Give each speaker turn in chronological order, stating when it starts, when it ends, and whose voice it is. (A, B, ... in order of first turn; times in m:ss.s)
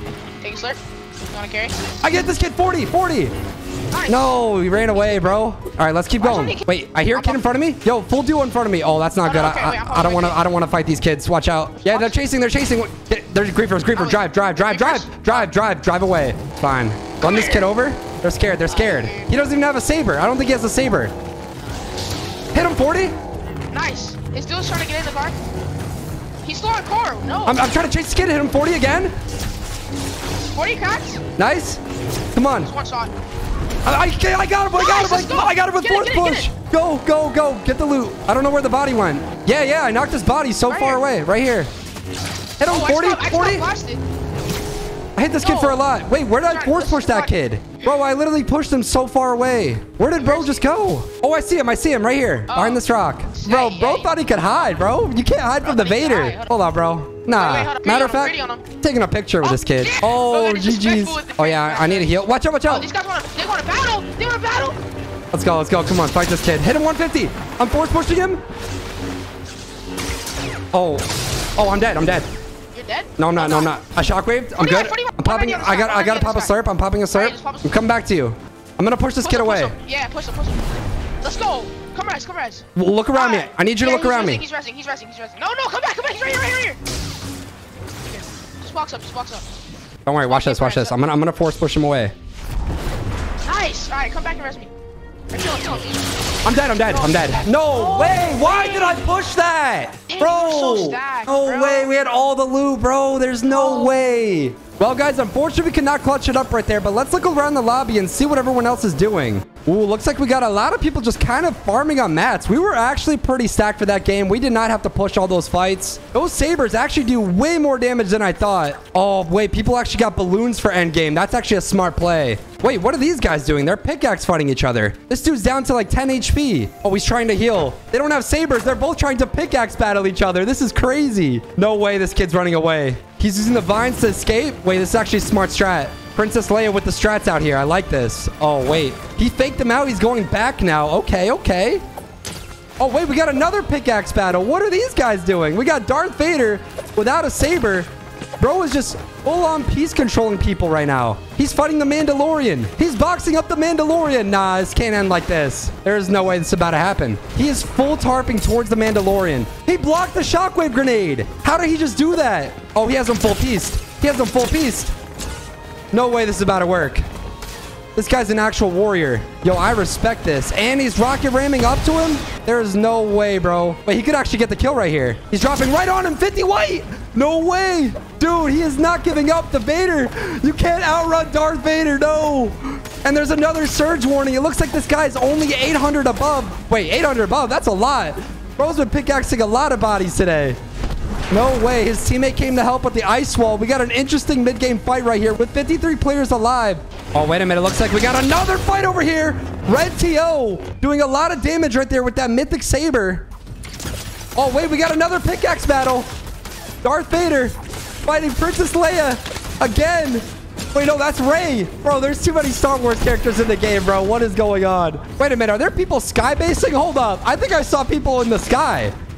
0:00.4-0:01.7 A
0:02.0-0:03.3 B
0:03.9-0:05.4 A
0:04.1-0:21.1 B
0:06.2-0:07.4 A
0:09.2-0:10.4 A
0:11.8-0:12.2 A
0:13.9-0:15.5 A
0:17.2-0:17.7 A
0:18.7-0:19.3 A
0:22.5-0:23.1 B
0:23.7-0:25.4 A
0:26.4-0:27.6 A
0:27.4-0:29.1 B
0:30.5-0:31.2 A
0:31.4-0:31.8 B
0:32.3-0:32.7 B
0:32.6-0:33.1 A
0:33.8-0:41.7 B
0:34.7-0:36.5 A
0:40.7-0:41.0 A
0:42.6-0:43.7 B
0:42.6-0:44.0 A
0:45.2-1:02.9 B
0:45.4-0:45.8 A
0:46.4-0:47.3 A
0:50.2-0:50.6 A
0:52.5-0:54.2 A
0:55.6-0:56.6 A
0:57.3-0:58.6 A
0:59.4-1:04.8 A
1:05.3-1:08.4 B
1:10.7-1:12.3 B
1:12.7-1:13.7 A
1:13.2-1:19.7 B
1:14.6-1:17.8 A
1:19.2-1:20.6 A
1:21.2-1:26.8 A
1:22.7-1:24.4 B
1:28.6-1:29.4 A
1:30.0-1:32.1 B
1:30.2-1:30.9 A
1:33.4-1:34.7 A
1:35.3-1:36.0 A
1:36.4-2:21.8 B
1:36.7-1:39.0 A
1:40.1-1:41.9 A
1:43.5-1:43.9 A
2:22.8-2:27.9 B
2:28.4-2:44.9 B
2:45.9-2:47.0 B
2:47.9-3:10.6 B
3:11.3-3:23.3 B
3:24.4-3:26.1 B
3:26.8-3:38.9 B